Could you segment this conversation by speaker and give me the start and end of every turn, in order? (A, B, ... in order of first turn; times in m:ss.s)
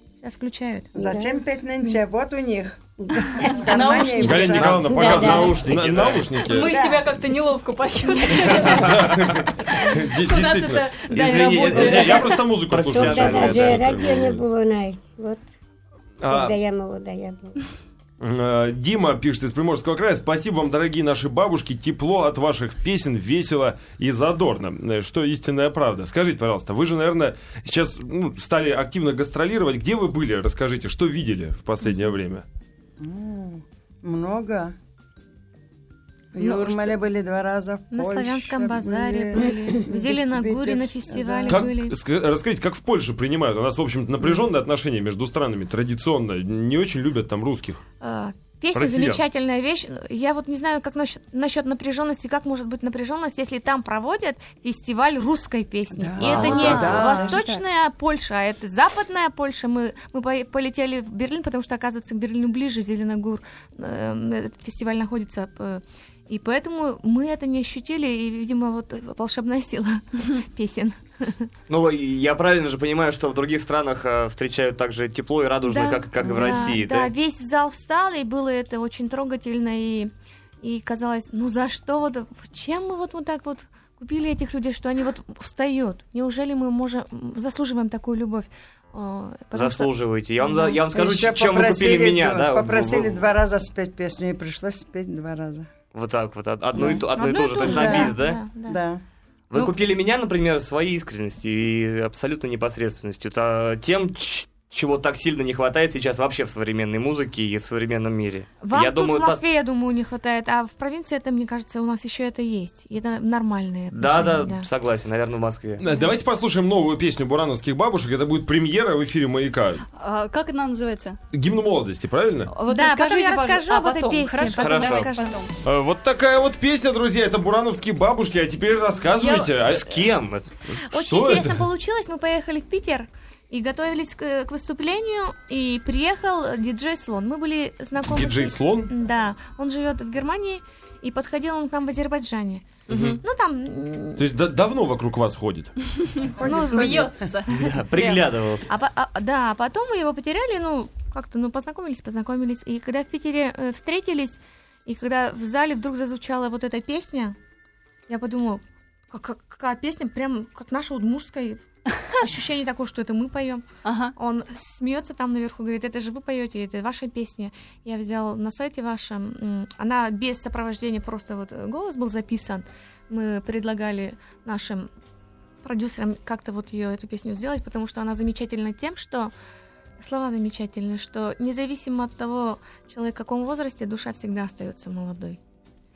0:00.2-0:00.9 A
0:01.0-0:01.4 B
0:01.0-0:05.4 C
0:03.0-0:03.7 B
0:03.6-0:05.3 D
0:04.2-0:06.8 E
0:04.6-0:06.4 F
0:04.9-0:05.6 B
0:06.4-0:12.4 D
0:08.6-0:14.4 E
0:11.1-0:14.0 F
0:12.7-0:15.4 B
0:16.2-0:16.6 E
0:16.2-0:17.6 B
0:18.2-0:32.4 E
0:33.0-0:34.7 C
0:36.3-0:41.7 C
0:36.4-0:37.0 A
0:37.9-0:42.0 A
0:41.5-0:47.8 E
0:48.0-1:11.5 A
0:48.7-0:49.2 E
0:55.9-0:57.6 C
0:56.3-0:57.3 D
1:11.7-1:17.1 F
1:15.6-1:30.8 A
1:16.2-1:16.7 C
1:29.5-1:33.2 F
1:30.9-1:35.7 C
1:35.9-1:38.4 F
1:36.7-1:38.1 C
1:36.8-1:38.8 A
1:38.7-1:39.0 C
1:39.5-1:49.4 F
1:48.6-1:54.6 A
1:53.9-1:55.8 F
1:55.8-1:59.8 E
2:00.0-2:01.2 D
2:01.3-2:02.5 E
2:02.5-2:05.5 D
2:02.7-2:05.3 A
2:04.6-2:05.1 F
2:05.6-2:10.1 E
2:09.6-2:10.5 F
2:10.8-2:11.6 E
2:10.9-2:24.2 A
2:18.1-2:18.9 E
2:22.9-2:23.2 F
2:22.9-2:23.2 E
2:24.2-2:25.7 E
2:26.3-2:27.3 C
2:26.4-2:27.1 A
2:26.6-2:28.2 D
2:27.5-2:28.7 F
2:28.7-2:37.4 A
2:38.1-2:43.6 A
2:43.8-2:44.1 D
2:44.1-2:54.9 A
2:55.6-2:59.3 A
3:00.0-3:05.4 A